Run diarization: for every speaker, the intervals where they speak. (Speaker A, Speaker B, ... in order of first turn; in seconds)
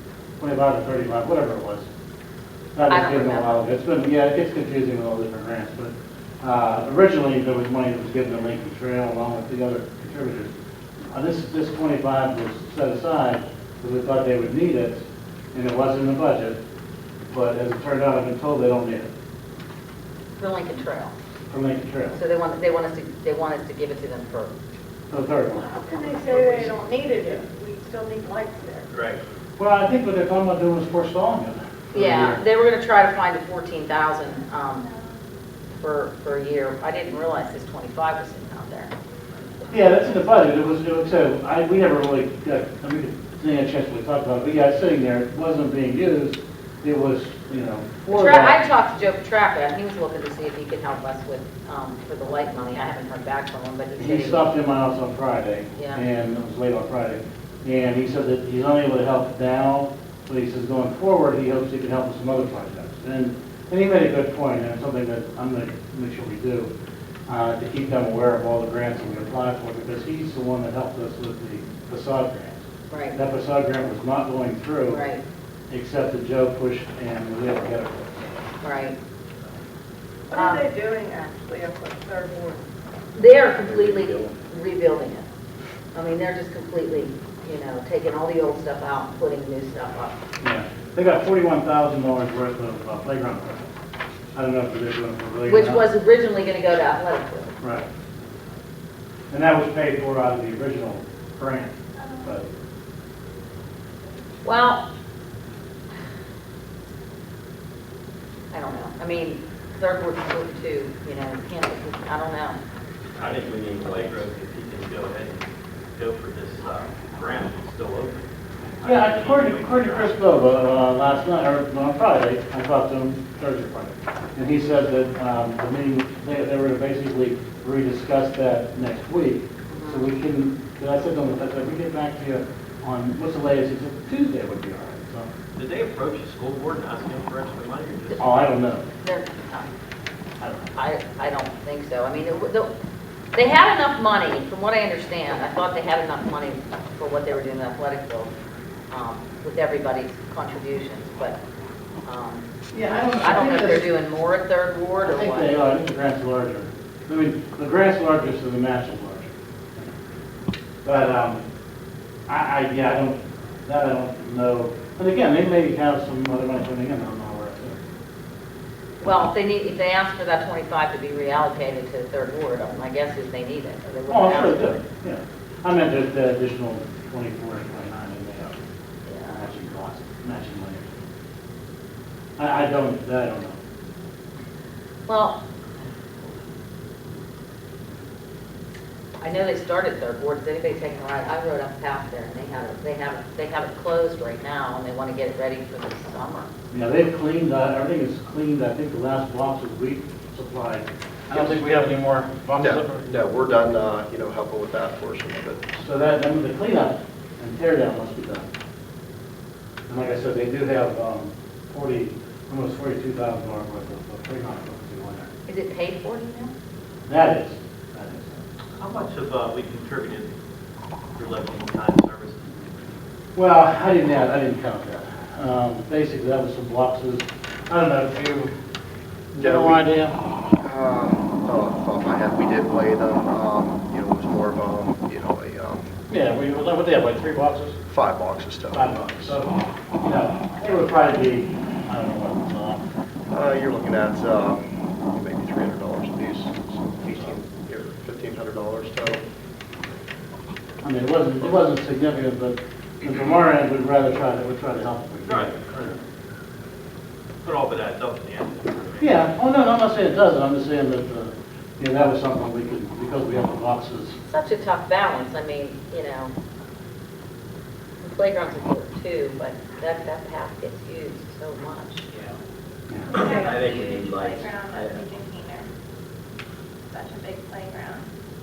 Speaker A: 0.4-1.9, 2.8-10.5, 11.1-15.0, 15.5-16.6, 17.3-19.1, 21.5-22.2, 25.1-25.7, 26.2-26.8, 29.6-32.4, 39.7-48.6, 54.0-66.7, 67.3-75.0, 75.7-78.4, 90.4-93.7, 94.3-95.9, 97.6-97.9, 99.3-102.5, 118.8-135.3, 138.2-138.9, 140.4-140.7, 152.7-153.9, 155.0-159.9, 160.8-161.4, 162.3-167.8, 174.1-178.6, 179.3-181.0, 182.4-183.6, 196.7-203.1, 205.7-208.5, 209.9-215.3, 217.1-218.4, 223.3-228.5, 229.3-230.2, 236.1-237.8, 238.7-242.8, 250.8-256.0, 259.0-264.2, 272.9-273.2
Speaker B: 2.9-3.5, 20.4-21.1, 22.1-24.5, 31.9-34.9, 35.7-38.9, 48.1-54.5, 55.8-56.0, 72.9-73.2, 74.9-75.2, 78.6-79.0, 80.3-80.7, 83.2-85.3, 85.9-90.2, 95.5-97.6, 104.4-104.9, 108.5-112.6, 129.7-130.1, 139.0-139.8, 140.8-142.7, 143.3-148.3, 148.9-151.4, 152.1-152.5, 153.1-155.6, 169.0-174.8, 179.1-179.4, 185.1-185.4, 189.2-196.5, 215.5-216.5, 264.3-266.3, 268.0-272.0
Speaker C: 25.6-28.9, 80.3-82.7
Speaker D: 28.9-29.2, 83.7-84.2, 113.1-120.2, 135.6-138.3, 218.8-220.3, 221.2-222.6, 255.2-256.0, 257.4-259.2, 272.1-272.4, 273.1-275.0
Speaker E: 102.0-102.3, 273.1-275.7, 276.9-278.1
Speaker F: 202.6-205.7, 229.4-229.8, 230.6-235.9, 237.9-239.4, 243.3-249.2